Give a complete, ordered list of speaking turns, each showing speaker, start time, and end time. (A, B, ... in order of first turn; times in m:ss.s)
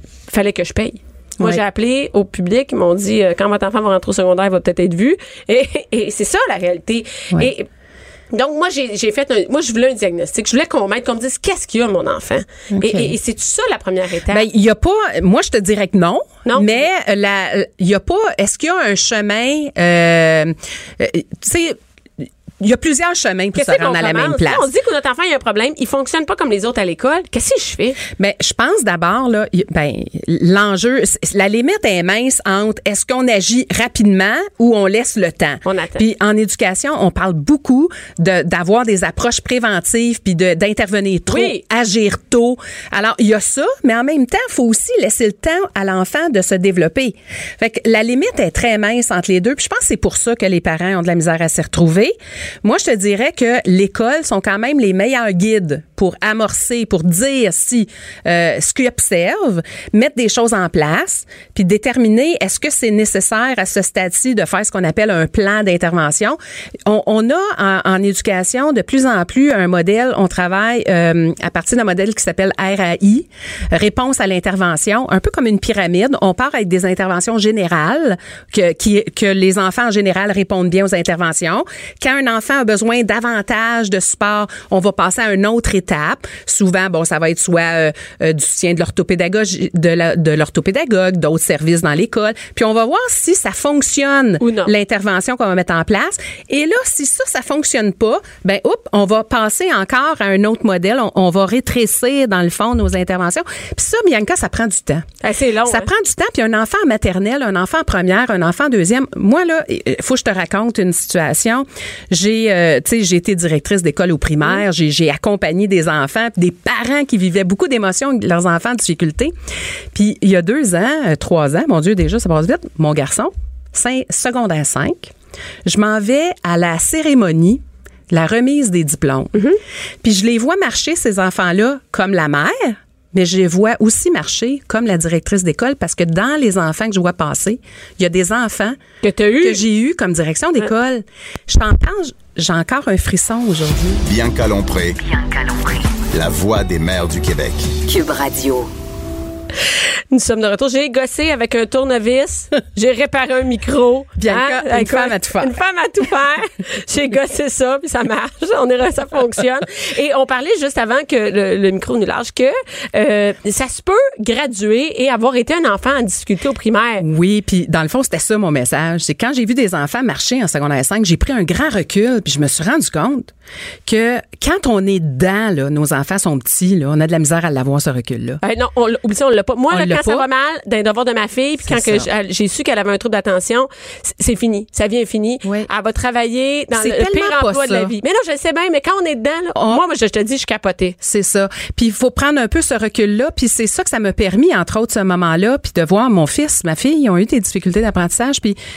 0:00.3-0:07.7 A
0:08.3-0:14.4 A
0:12.7-0:13.1 B
0:14.3-0:21.8 B
0:16.4-0:16.9 A
0:22.6-0:24.7 B
0:23.5-0:28.0 A
0:28.1-1:45.1 B
0:35.6-0:36.0 A
0:41.3-0:41.6 A
1:34.4-1:34.7 A
1:45.2-1:45.9 A
1:45.6-1:59.3 B
1:59.9-2:05.1 B
2:05.6-2:09.3 B
2:10.0-2:18.8 B
2:19.0-2:19.6 A
2:19.4-2:24.0 B
2:24.0-2:25.0 C
2:25.0-2:26.0 D
2:26.1-2:27.8 C
2:27.8-2:28.7 D
2:30.1-2:47.0 A
2:34.2-2:35.6 B
2:47.0-2:53.3 B
2:53.8-2:58.4 B
2:58.4-3:11.0 A
2:59.7-3:00.2 B
3:01.6-3:02.1 B
3:05.4-3:05.7 B
3:06.7-3:07.9 B
3:09.6-3:09.8 B
3:11.0-3:18.6 B